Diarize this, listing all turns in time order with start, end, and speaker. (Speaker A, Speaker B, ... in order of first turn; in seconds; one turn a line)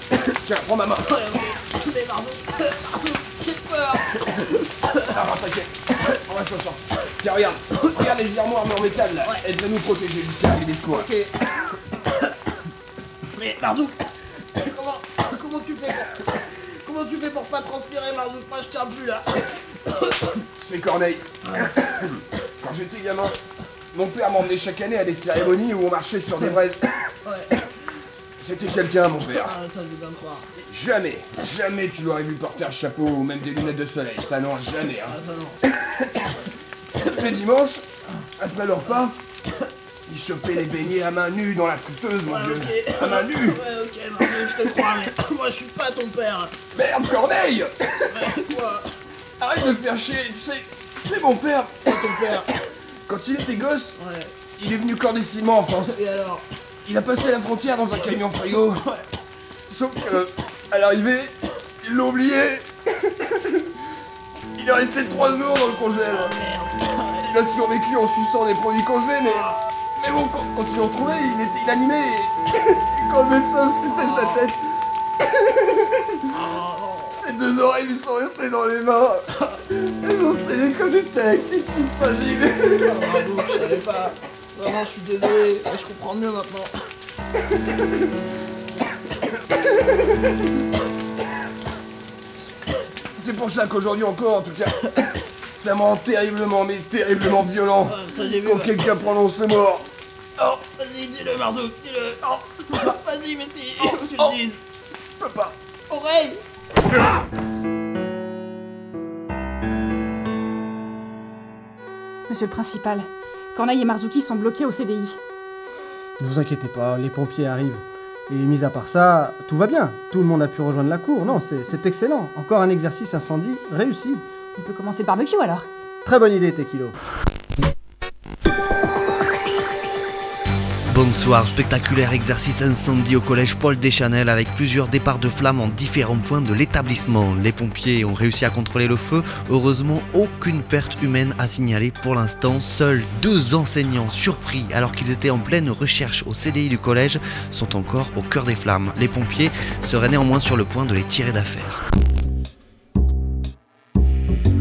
Speaker A: 0.3-1.1
Speaker B: 1.1-4.5
Speaker A: 5.0-11.1
Speaker B: 10.9-11.3
Speaker B: 13.3-20.2
Speaker A: 20.6-23.4
Speaker A: 23.9-27.1
Speaker A: 28.4-29.6
Speaker B: 29.3-30.5
Speaker A: 30.6-35.2
Speaker B: 35.1-35.6
Speaker A: 37.0-37.8
Speaker A: 38.4-39.2
Speaker A: 40.0-43.6
Speaker B: 42.2-46.6
Speaker A: 44.3-44.8
Speaker A: 46.7-47.7
Speaker B: 48.1-48.9
Speaker A: 49.4-52.4
Speaker B: 51.8-52.5
Speaker A: 53.1-54.0
Speaker B: 54.0-54.3
Speaker A: 54.5-56.0
Speaker B: 56.0-56.5
Speaker A: 56.8-58.9
Speaker A: 59.7-62.6
Speaker A: 64.5-66.3
Speaker B: 66.0-67.0
Speaker A: 67.0-74.6
Speaker B: 69.2-69.6
Speaker B: 73.9-74.5
Speaker A: 75.6-76.2
Speaker B: 76.3-77.2
Speaker A: 77.1-83.5
Speaker B: 82.8-86.7
Speaker A: 93.1-94.9
Speaker A: 95.5-99.9
Speaker B: 97.8-98.8
Speaker B: 100.4-104.6
Speaker A: 103.8-104.4
Speaker A: 105.2-105.5
Speaker B: 105.9-106.4
Speaker C: 112.3-115.2
Speaker D: 116.2-124.2
Speaker C: 124.6-125.7
Speaker D: 126.0-127.0
Speaker E: 130.9-151.8